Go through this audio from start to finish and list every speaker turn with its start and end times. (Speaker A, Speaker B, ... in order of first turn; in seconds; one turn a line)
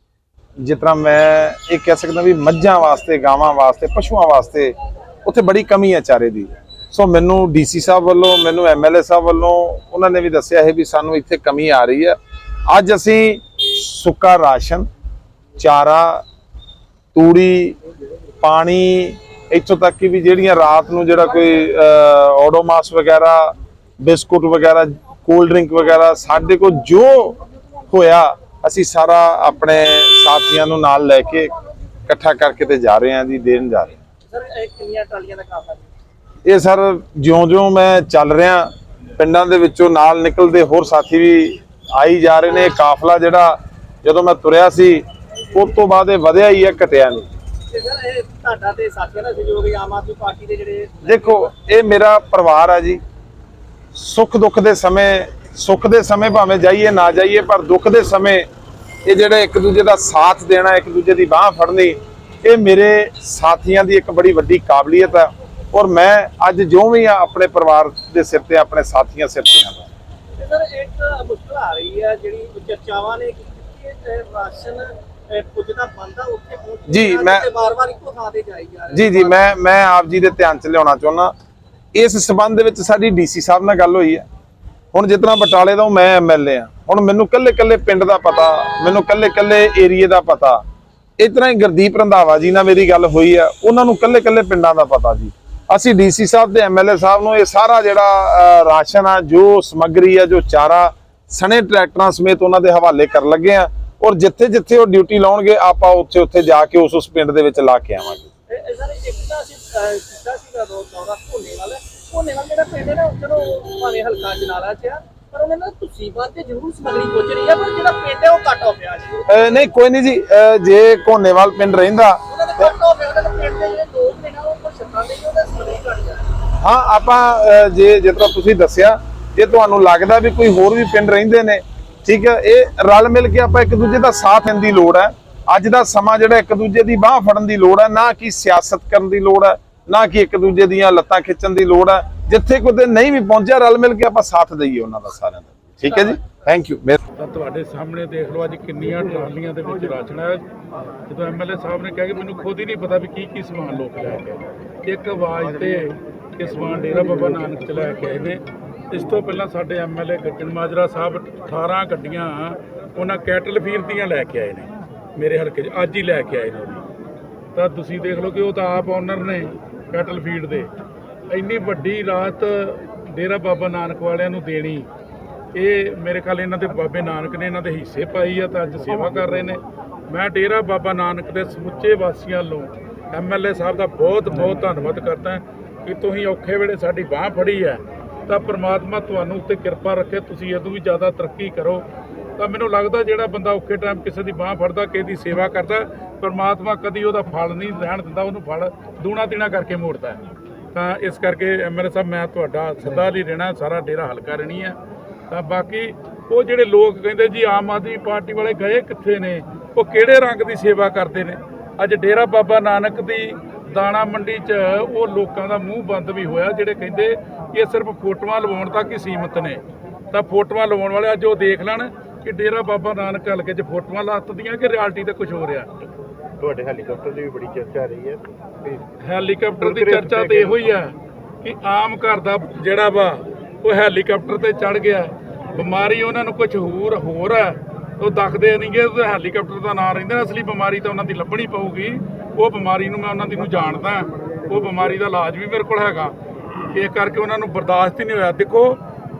Speaker A: 0.6-14.9
Speaker A: 15.6-16.2
Speaker A: 17.1-17.8
Speaker A: 18.4-27.4
Speaker A: 27.9-31.5
Speaker A: 32.0-34.0
Speaker B: 34.3-35.9
Speaker A: 36.4-47.3
Speaker B: 47.7-51.5
Speaker A: 51.0-53.0
Speaker A: 53.9-58.5
Speaker A: 59.0-69.9
Speaker B: 70.4-79.4
Speaker A: 76.9-77.5
Speaker A: 78.9-81.3
Speaker A: 81.9-84.2
Speaker A: 84.9-90.6
Speaker A: 91.2-108.3
Speaker B: 108.5-119.3
Speaker A: 119.3-122.7
Speaker B: 122.3-126.4
Speaker A: 126.6-147.0
Speaker C: 147.2-150.4
Speaker C: 151.1-166.8
Speaker C: 167.5-170.7
Speaker C: 171.3-174.9
Speaker C: 175.5-191.8
Speaker C: 192.4-200.2
Speaker C: 200.7-204.8
Speaker C: 205.3-225.9
Speaker D: 226.4-228.8
Speaker C: 229.0-246.1
Speaker D: 229.6-230.7
Speaker C: 246.7-248.8